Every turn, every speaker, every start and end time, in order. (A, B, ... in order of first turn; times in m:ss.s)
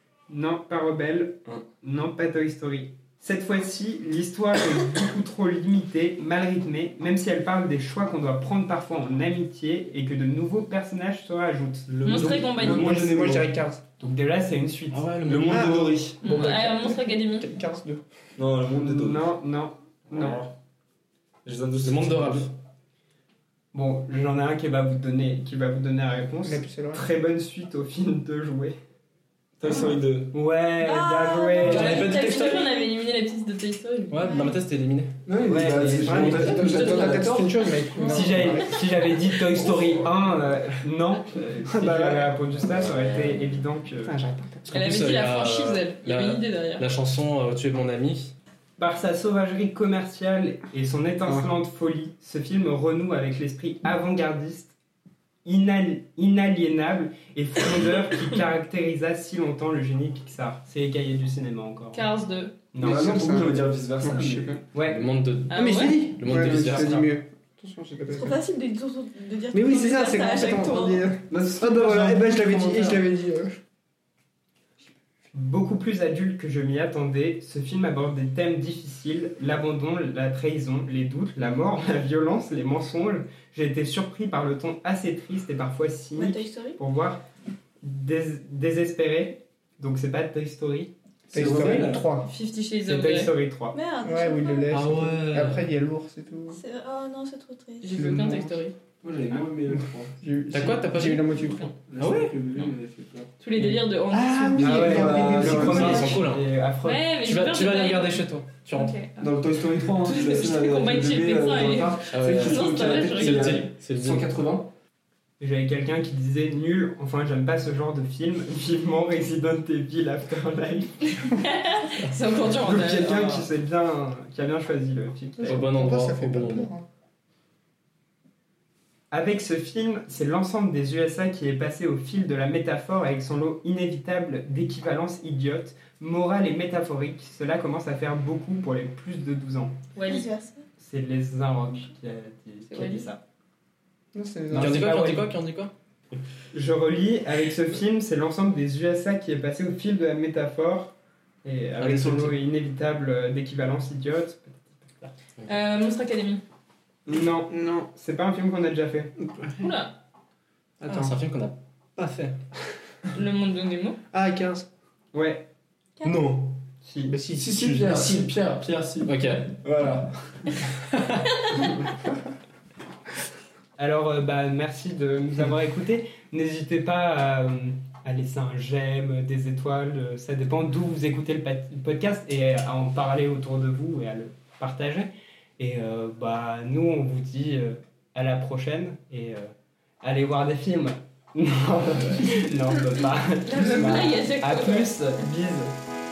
0:00.3-0:12.2 A
0:11.9-0:13.5 B
0:12.0-0:13.0 C
0:12.2-0:13.8 D
0:12.8-0:13.4 A
0:14.0-0:15.1 A
0:14.9-0:15.8 E
0:15.2-0:16.2 B
0:15.4-0:18.0 D
0:16.2-0:17.5 C
0:18.4-0:19.2 B
0:18.7-0:20.5 A
0:20.1-0:20.4 B
0:21.4-0:22.5 B
0:21.8-0:22.5 E
0:23.7-0:28.8 A
0:26.4-0:27.0 D
0:29.6-0:30.3 B
0:29.7-0:29.9 F
0:30.3-0:32.0 A
0:30.8-0:32.9 F
0:31.6-0:32.6 E
0:31.6-0:34.5 C
0:34.1-0:35.1 E
0:34.2-0:34.6 F
0:35.2-0:37.6 B
0:35.4-0:36.7 A
0:35.9-0:38.7 D
0:36.0-0:36.5 E
0:37.9-0:38.4 C
0:38.0-0:44.2 A
0:41.7-0:42.3 D
0:44.0-0:44.7 D
0:44.7-0:48.3 E
0:44.7-0:46.8 C
0:48.8-0:54.7 A
0:55.4-1:02.0 A
1:01.9-1:02.6 C
1:02.7-1:03.3 A
1:02.8-1:04.6 B
1:02.8-1:04.6 D
1:04.7-1:05.0 A
1:04.8-1:07.1 E
1:05.5-1:06.0 C
1:05.5-1:08.4 D
1:06.3-1:07.0 B
1:08.1-1:11.1 F
1:09.5-1:13.6 D
1:11.3-1:13.0 B
1:15.3-1:27.2 A
1:26.2-1:26.8 F
1:27.8-1:30.9 A
1:31.3-1:32.3 D
1:31.3-1:32.1 B
1:32.1-1:33.3 C
1:32.8-1:33.8 A
1:33.7-1:34.7 F
1:34.0-1:36.6 D
1:34.7-1:35.7 E
1:36.5-1:38.0 F
1:37.8-1:38.7 C
1:37.9-1:38.6 D
1:39.0-1:40.1 B
1:39.8-1:41.9 D
1:40.5-1:41.5 E
1:41.9-1:43.3 B
1:42.0-1:42.7 E
1:43.4-1:44.9 C
1:44.1-1:46.2 D
1:44.6-1:46.2 B
1:44.6-1:47.0 A
1:45.3-1:46.5 E
1:46.8-1:53.6 C
1:47.2-1:49.0 E
1:49.2-1:54.7 B
1:52.1-1:54.3 E
1:55.4-2:01.3 A
2:01.4-2:03.3 C
2:02.5-2:05.7 A
2:03.1-2:03.4 E
2:05.4-2:06.8 D
2:05.4-2:06.7 E
2:09.1-2:19.8 A
2:20.0-2:20.3 C
2:20.0-2:20.6 F
2:20.8-2:23.2 A
2:22.7-2:23.1 C
2:24.1-2:25.0 D
2:24.5-2:25.3 A
2:24.5-2:25.7 E
2:26.5-2:35.1 A
2:31.8-2:32.4 E
2:35.5-2:36.4 C
2:37.0-2:39.1 A
2:37.5-2:37.9 D
2:39.2-2:39.7 D
2:39.6-2:39.9 C
2:40.8-2:41.2 D
2:40.9-2:41.6 E
2:42.0-2:42.4 D
2:43.1-2:44.0 C
2:44.1-2:44.7 D
2:45.1-2:45.5 A
2:46.0-2:46.5 B
2:46.8-2:47.1 A
2:47.1-2:47.9 D
2:47.4-2:50.6 B
2:47.6-2:49.6 E
2:50.9-2:51.4 E
2:53.8-3:15.7 A
3:13.5-3:14.9 C